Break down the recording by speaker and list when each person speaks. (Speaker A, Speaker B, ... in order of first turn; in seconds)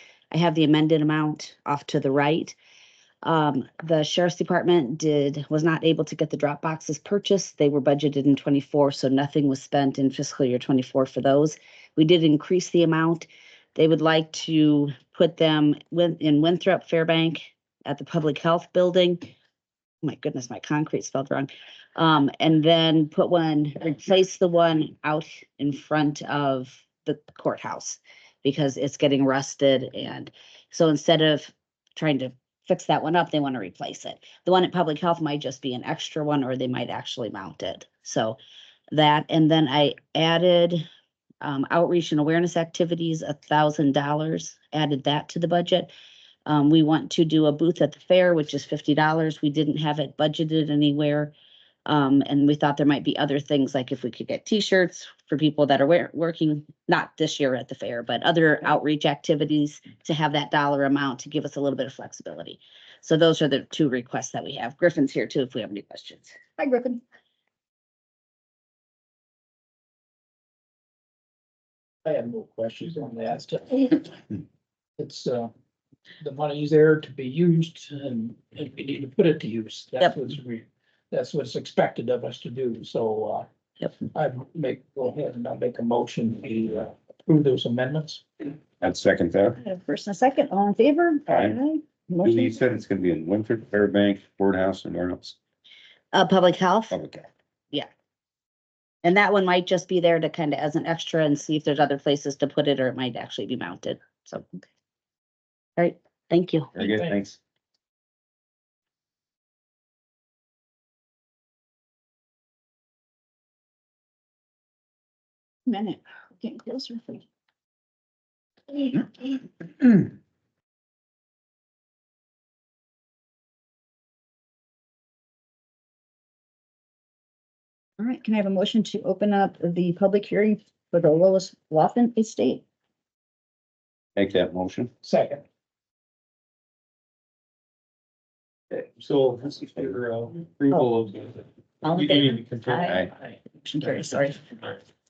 Speaker A: 0.3-2.5, 3.2-19.3, 20.0-38.4, 38.9-40.8, 41.4-45.9, 46.5-51.3, 51.9-66.4, 96.1-97.0, 99.0-104.6, 105.8-106.8, 141.8-143.1
Speaker B: 66.6-67.0, 89.6-92.5, 115.7-117.2, 118.7-119.2, 128.0-132.6, 143.6-144.1
Speaker C: 72.0-74.2, 75.0-75.5, 76.2-83.5, 84.1-88.2, 106.8-107.2, 135.0-135.4
Speaker D: 88.8-89.6, 91.3-91.5, 92.2-95.3, 96.9-97.3, 106.8-107.4, 134.1-134.9
Speaker E: 138.7-143.0, 144.4-144.8